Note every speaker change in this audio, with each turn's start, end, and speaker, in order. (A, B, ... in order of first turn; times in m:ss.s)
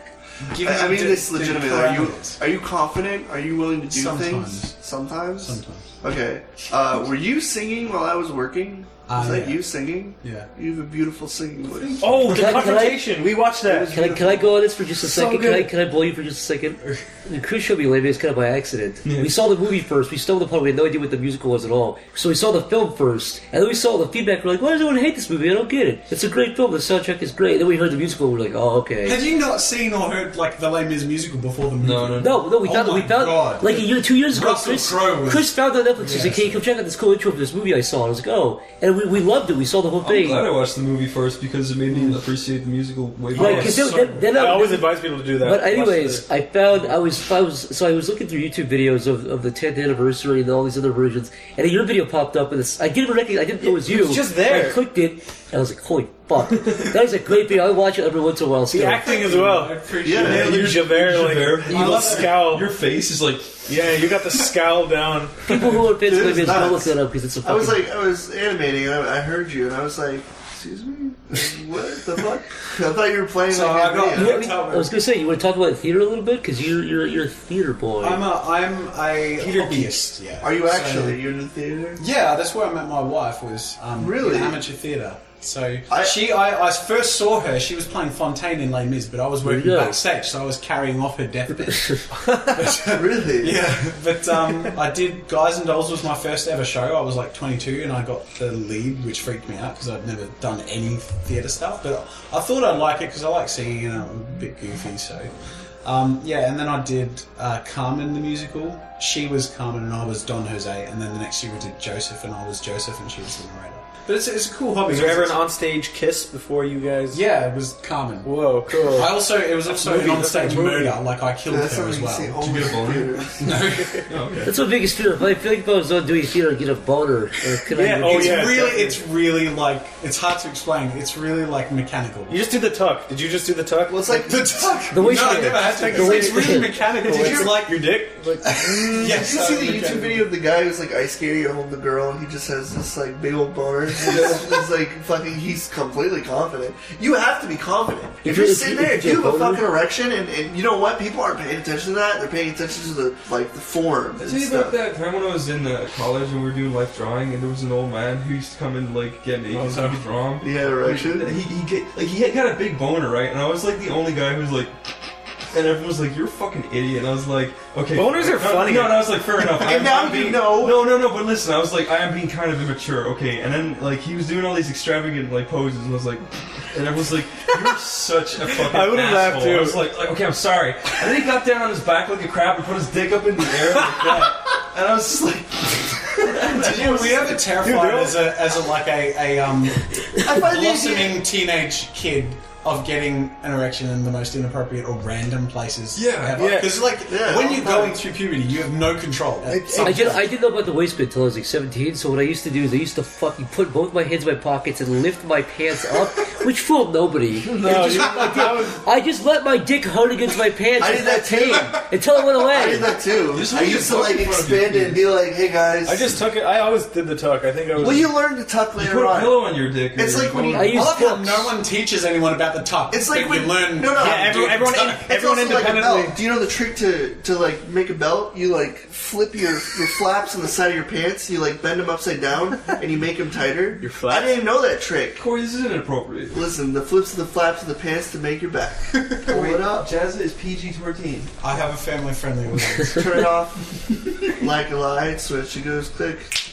0:00.4-0:02.4 A
0:00.6-0:12.1 B
0:03.9-0:04.7 A
0:05.4-0:05.9 A
0:09.1-0:09.6 A
0:10.2-0:10.5 A
0:11.7-0:12.5 A
0:12.0-0:14.0 C
0:12.3-0:13.1 D
0:13.7-0:14.5 B
0:13.9-0:29.2 D
0:15.0-0:15.7 C
0:19.0-0:19.3 E
0:29.0-0:36.6 A
0:31.8-0:32.4 E
0:32.2-0:40.5 D
0:40.0-0:43.8 E
0:41.9-0:42.2 A
0:43.4-0:44.9 D
0:43.4-0:46.2 C
0:43.4-0:44.3 A
0:45.4-0:59.1 D
0:53.6-0:54.8 C
0:58.7-1:02.7 C
0:59.0-1:00.7 A
1:00.0-1:00.6 B
1:00.1-1:03.6 E
1:01.7-1:02.1 B
1:01.7-1:02.3 A
1:03.6-1:05.8 C
1:05.4-1:07.8 D
1:06.0-1:14.6 B
1:13.5-1:14.9 A
1:14.1-1:18.2 D
1:18.0-1:21.2 A
1:20.4-1:22.0 B
1:22.0-1:55.4 A
1:24.0-1:24.6 B
1:25.9-1:26.3 B
1:29.4-1:30.0 D
1:32.8-1:33.7 B
1:54.8-1:57.2 C
1:57.1-2:02.8 A
1:58.2-2:01.0 C
2:01.5-2:03.5 B
2:02.4-2:03.1 E
2:03.4-2:04.0 A
2:04.1-2:04.5 E
2:04.4-2:08.6 D
2:07.7-2:09.0 C
2:08.0-2:12.4 A
2:12.3-2:14.3 C
2:13.9-2:14.9 B
2:14.2-2:17.8 A
2:14.9-2:16.7 D
2:15.1-2:19.2 C
2:17.1-2:17.5 B
2:18.4-2:20.3 A
2:18.9-2:34.8 B
2:28.2-2:29.6 D
2:34.2-2:44.8 E
2:39.5-2:40.0 C
2:40.4-2:41.4 B
2:45.5-3:07.1 E
2:47.9-2:49.2 C
2:49.5-2:50.9 B
2:58.5-2:59.9 C
3:04.0-3:04.3 C
3:06.5-3:20.3 A
3:07.6-3:08.3 C
3:10.2-3:11.2 B
3:15.9-3:16.5 E
3:16.4-3:16.7 C
3:17.1-3:18.0 B
3:19.5-3:20.1 B
3:19.8-3:32.9 D
3:27.5-3:28.8 C
3:28.1-3:28.4 A
3:30.8-3:31.8 B
3:32.4-3:36.0 B
3:33.3-3:34.9 E
3:35.8-3:38.1 C
3:37.8-3:40.7 B
3:38.8-3:40.7 E
3:40.5-3:41.5 D
3:40.6-3:45.0 A
3:42.9-3:55.2 B
3:43.9-3:46.2 C
3:53.8-3:54.3 C
3:55.2-3:56.4 E
3:56.3-3:59.9 B
3:59.3-4:01.3 E
4:01.4-4:03.3 A
4:02.9-4:06.4 B